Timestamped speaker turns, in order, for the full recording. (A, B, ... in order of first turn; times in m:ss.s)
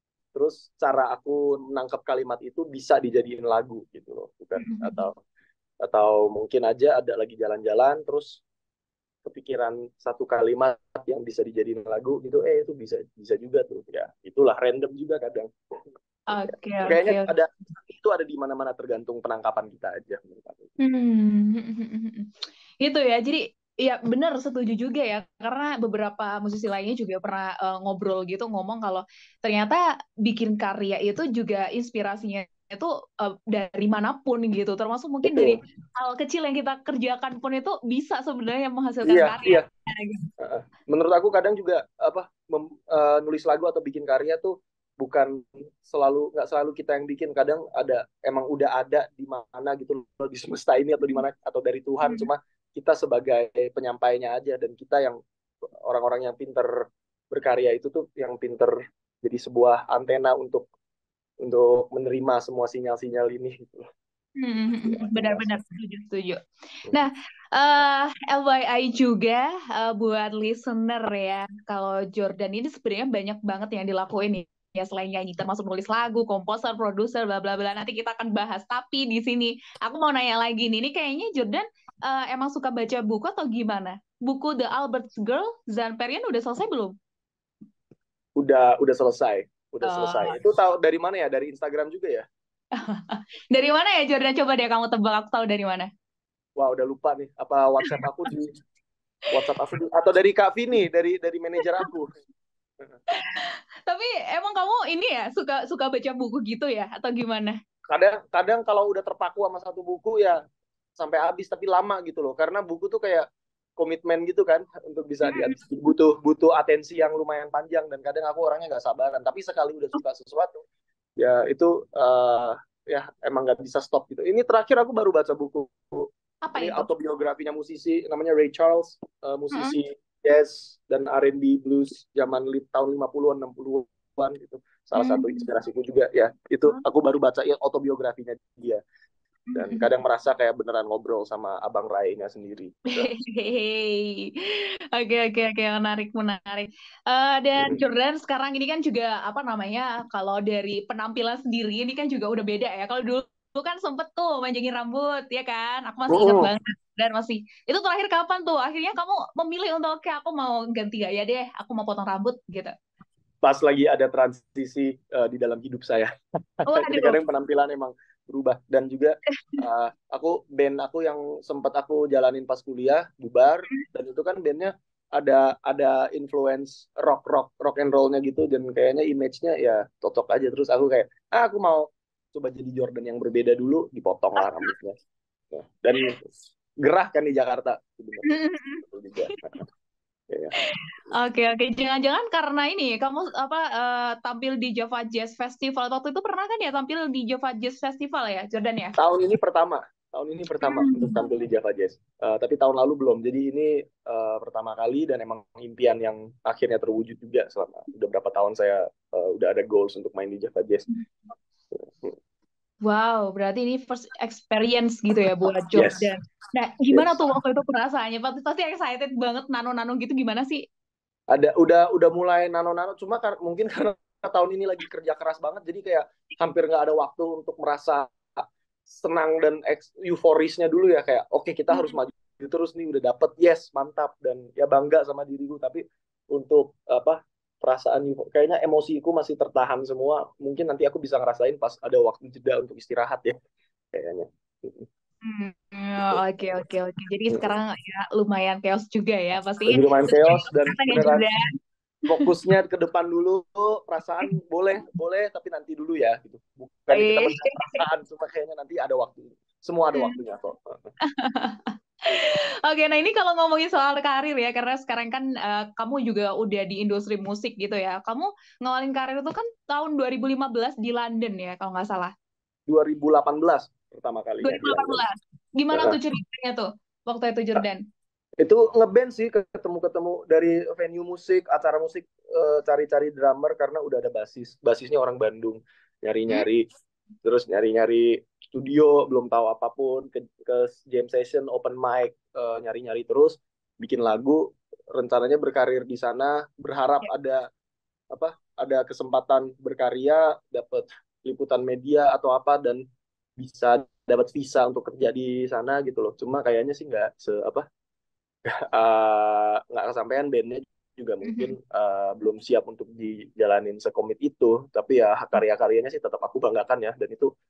0:00.3-0:05.2 A
0:04.6-0:05.1 B
0:05.8-0:08.4 A
0:09.2-0:15.5 A
0:16.3-0:17.3 B
0:16.3-0:20.7 A
0:20.8-0:22.3 B
0:22.8-0:40.3 B
0:35.2-0:35.6 A
0:39.0-0:39.6 A
0:40.4-0:55.2 A
0:52.0-0:52.3 B
0:55.8-1:00.7 A
1:01.4-1:03.9 A
1:04.4-1:06.4 B
1:04.7-1:05.6 A
1:06.9-1:26.9 B
1:28.4-1:32.2 A
1:29.8-1:30.4 B
1:32.8-1:35.9 B
1:36.6-1:38.5 A
1:39.3-1:42.1 A
1:43.1-1:47.6 B
1:47.9-1:50.4 A
1:51.0-1:53.2 A
1:53.8-2:00.6 A
1:55.2-1:55.6 B
2:01.2-2:18.8 A
2:06.4-2:06.9 B
2:09.5-2:09.8 B
2:15.0-2:15.5 B
2:19.5-2:19.9 B
2:19.6-2:23.1 A
2:23.0-2:42.7 B
2:27.6-2:27.8 A
2:36.1-2:36.5 A
2:43.4-3:05.0 A
2:46.7-2:47.2 B
3:04.4-3:04.7 B
3:05.5-3:06.3 A
3:06.8-3:09.6 A
3:08.2-3:09.4 B
3:11.1-3:19.0 B
3:19.0-3:30.9 A
3:20.6-3:21.3 B
3:31.7-3:32.1 A
3:32.8-3:40.6 B
3:35.7-3:36.1 A
3:36.9-3:37.2 A
3:41.3-4:03.4 A
3:51.7-3:52.0 B
4:03.9-4:04.9 A
4:05.2-4:11.5 B
4:06.0-4:06.2 A
4:07.3-4:07.6 A
4:09.7-4:11.2 A
4:12.1-4:20.8 A
4:16.9-4:17.8 B
4:21.0-4:32.1 B
4:32.7-4:35.0 A
4:34.4-4:37.8 B
4:35.7-4:36.0 A
4:38.4-4:46.7 A
4:47.2-4:57.5 A
4:58.1-5:02.8 A
5:03.4-5:07.6 A
5:08.4-5:17.3 A
5:11.2-5:11.5 B